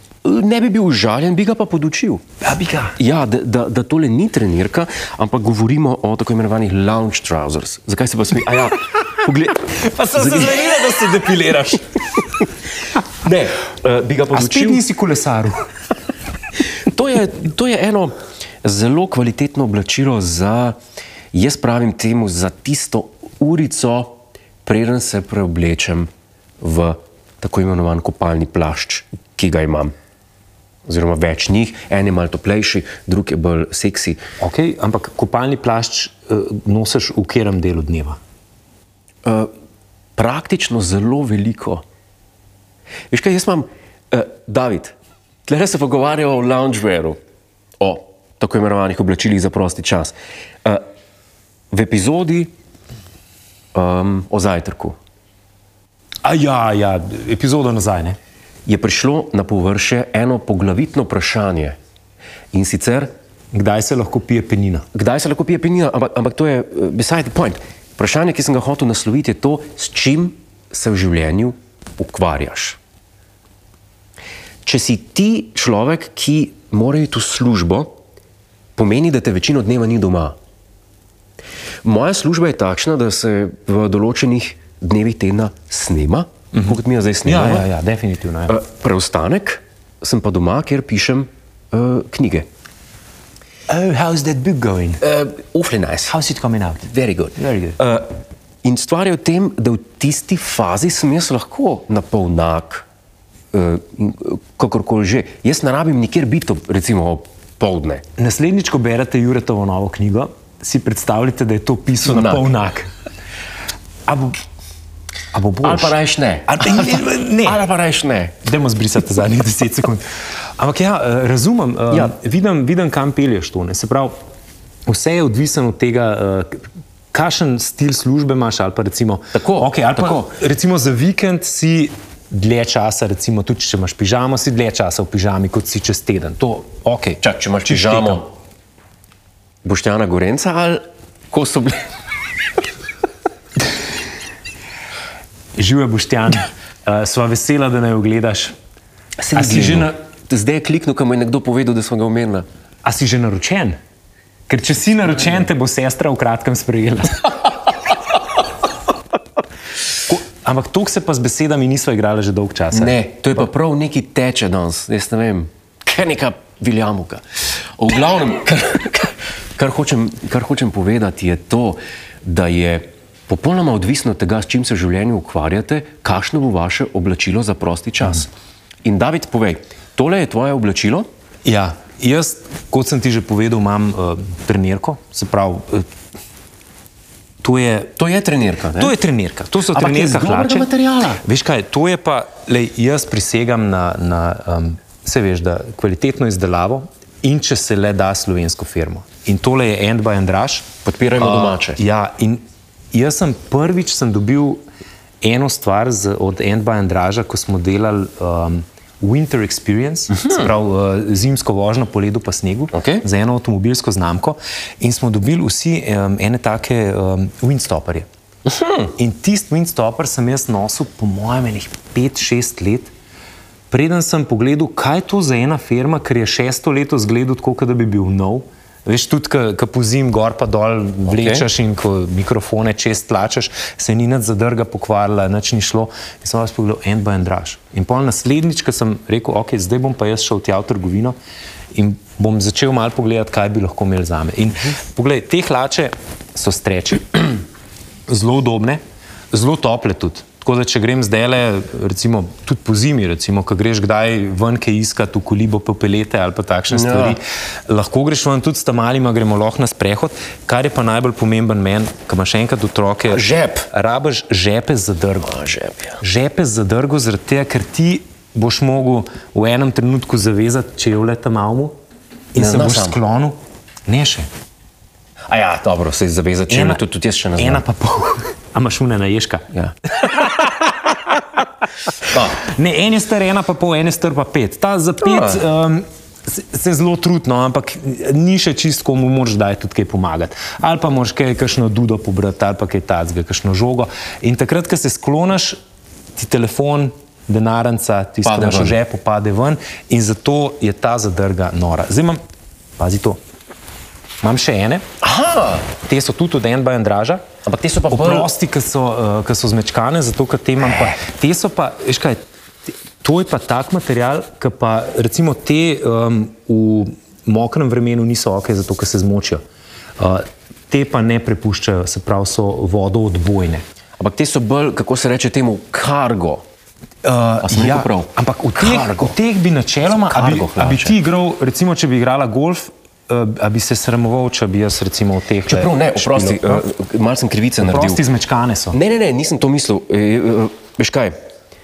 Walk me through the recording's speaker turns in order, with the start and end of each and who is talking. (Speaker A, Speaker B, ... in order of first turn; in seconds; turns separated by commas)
Speaker A: 0.2-2.2, Speaker B: 2.4-3.0, Speaker A: 3.0-10.9, Speaker B: 9.7-11.9, Speaker A: 13.2-14.8, Speaker B: 14.3-15.7, Speaker A: 16.9-20.8, Speaker A: 21.3-26.1, Speaker A: 26.6-29.9, Speaker A: 30.9-34.2, Speaker B: 34.4-38.2, Speaker A: 39.2-39.5, Speaker A: 40.2-41.8, Speaker A: 43.1-45.0, Speaker A: 45.5-47.2, Speaker A: 47.8-50.8, Speaker A: 51.7-52.5, Speaker A: 53.8-55.0, Speaker B: 56.2-58.2, Speaker A: 58.7-61.8, Speaker A: 62.5-63.1, Speaker B: 63.5-64.9, Speaker A: 64.9-72.8, Speaker A: 74.6-77.9, Speaker A: 78.8-80.4, Speaker A: 81.8-87.7, Speaker B: 86.5-88.6, Speaker A: 88.5-92.5, Speaker B: 93.7-95.0, Speaker A: 95.0-96.1, Speaker B: 96.1-97.8, Speaker A: 96.9-98.1, Speaker A: 98.6-102.9, Speaker A: 103.5-108.0, Speaker B: 108.2-112.9, Speaker A: 112.0-112.5, Speaker B: 114.1-114.4, Speaker B: 115.3-116.0, Speaker A: 115.6-118.3, Speaker B: 116.5-117.6, Speaker B: 118.4-120.0, Speaker B: 120.6-124.2, Speaker B: 124.9-138.2, Speaker A: 129.3-130.3, Speaker A: 137.2-138.3, Speaker A: 139.6-141.8, Speaker B: 145.6-148.6, Speaker A: 149.2-152.5, Speaker B: 149.3-150.0, Speaker B: 152.8-153.8, Speaker B: 154.5-157.5, Speaker B: 160.1-163.4, Speaker A: 162.7-167.2, Speaker A: 167.8-178.3, Speaker A: 178.8-181.1, Speaker B: 181.4-185.9, Speaker B: 187.4-187.9, Speaker A: 188.0-188.9, Speaker B: 188.8-190.7, Speaker A: 189.7-191.2, Speaker B: 191.2-202.4, Speaker A: 200.8-201.8, Speaker B: 202.9-204.6, Speaker B: 205.2-218.1, Speaker A: 210.1-210.5, Speaker A: 212.7-213.1, Speaker A: 218.5-218.9, Speaker B: 219.0-222.9, Speaker B: 223.7-241.2, Speaker A: 231.1-231.5, Speaker B: 241.7-247.4, Speaker B: 248.1-248.8, Speaker B: 249.3-265.3, Speaker A: 256.7-257.2, Speaker A: 263.1-263.7, Speaker A: 265.2-266.0, Speaker B: 266.0-271.8, Speaker B: 272.3-274.3, Speaker A: 272.4-273.0, Speaker A: 275.3-277.6, Speaker B: 276.5-276.8, Speaker B: 277.4-280.8, Speaker A: 282.1-282.4, Speaker B: 282.4-295.6, Speaker A: 285.0-285.4, Speaker B: 296.2-302.2, Speaker A: 298.2-298.8, Speaker B: 302.8-303.2, Speaker B: 304.2-304.9, Speaker A: 305.0-305.7, Speaker B: 305.8-307.2, Speaker A: 307.4-308.3, Speaker B: 307.9-319.4, Speaker B: 320.0-323.6, Speaker A: 324.0-326.4, Speaker B: 327.0-336.6, Speaker A: 327.4-329.1, Speaker A: 329.9-331.0, Speaker A: 335.5-338.0, Speaker B: 337.6-338.8, Speaker A: 338.7-341.1